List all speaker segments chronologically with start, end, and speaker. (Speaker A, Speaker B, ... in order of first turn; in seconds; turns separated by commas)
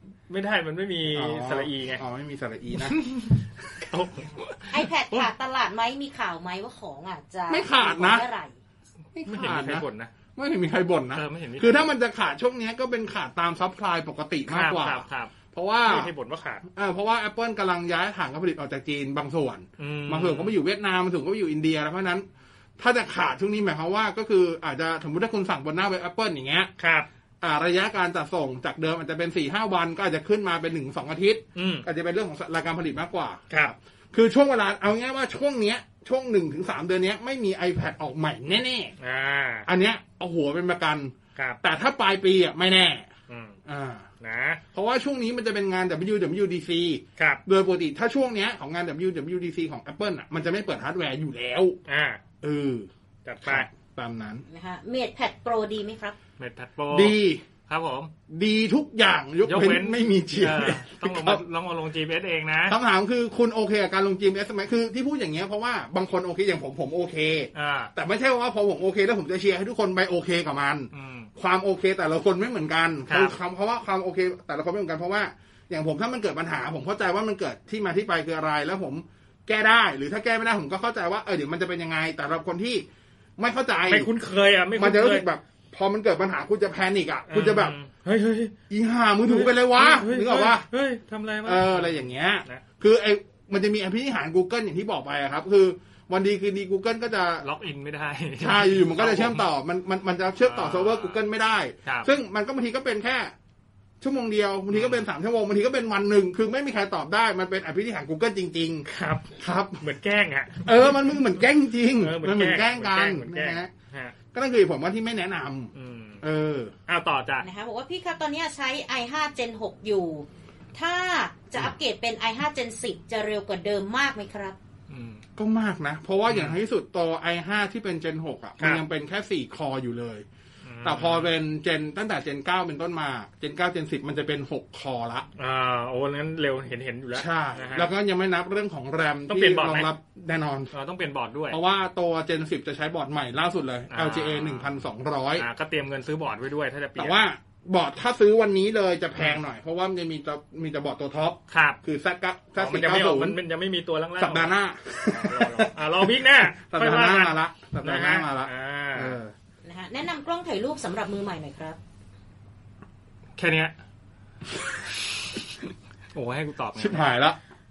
Speaker A: 0.3-2.0, Speaker B: 1.1-3.0, Speaker A: 2.7-5.3, Speaker C: 4.7-8.5, Speaker B: 7.5-8.2, Speaker B: 9.1-16.1, Speaker A: 9.2-10.1, Speaker A: 11.1-11.9, Speaker A: 14.5-16.6, Speaker B: 16.7-22.2, Speaker A: 19.8-20.5, Speaker B: 22.8-26.7, Speaker A: 26.8-27.1, Speaker B: 27.4-33.4, Speaker A: 31.6-31.9, Speaker A: 33.5-33.7, Speaker B: 34.1-38.9, Speaker A: 39.0-39.7, Speaker B: 39.6-43.1, Speaker A: 43.3-43.6, Speaker B: 43.6-44.1, Speaker A: 44.2-44.6, Speaker B: 44.7-51.8, Speaker A: 47.2-47.4, Speaker A: 51.9-52.2, Speaker B: 52.4-52.9, Speaker A: 53.2-53.7, Speaker B: 53.4-54.4, Speaker C: 54.5-56.2, Speaker A: 56.4-58.1, Speaker B: 56.9-57.4, Speaker B: 58.3-61.4, Speaker A: 59.4-62.8, Speaker B: 62.7-82.8, Speaker A: 67.5-67.9, Speaker A: 70.9-71.3, Speaker A: 73.1-73.3, Speaker B: 83.4-84.1, Speaker A: 83.9-85.2, Speaker B: 84.8-87.7, Speaker A: 87.3-88.5, Speaker B: 88.7-90.7, Speaker A: 89.2-92.6, Speaker B: 91.4-97.5, Speaker A: 97.4-99.4, Speaker B: 98.4-103.3, Speaker A: 100.4-101.2, Speaker A: 101.8-102.1, Speaker B: 104.0-108.9, Speaker A: 104.7-105.0, Speaker A: 108.9-111.0, Speaker B: 109.4-109.8, Speaker B: 110.6-113.7, Speaker A: 112.0-114.1, Speaker B: 114.3-116.7, Speaker A: 115.7-116.2, Speaker A: 116.9-117.5, Speaker C: 117.4-124.6, Speaker A: 124.9-125.2, Speaker B: 125.4-130.2, Speaker A: 126.3-126.5, Speaker A: 130.6-131.3, Speaker B: 130.8-135.3, Speaker A: 135.4-137.9, Speaker B: 137.1-140.7, Speaker A: 139.3-139.9, Speaker A: 140.7-141.6, Speaker B: 141.5-145.4, Speaker A: 143.9-144.7, Speaker A: 145.4-147.2, Speaker B: 147.0-153.4, Speaker A: 151.5-151.8, Speaker A: 152.6-154.5, Speaker B: 154.2-159.3, Speaker A: 155.1-159.2, Speaker C: 159.6-161.8, Speaker A: 163.4-163.7, Speaker A: 166.1-167.1, Speaker B: 166.8-167.4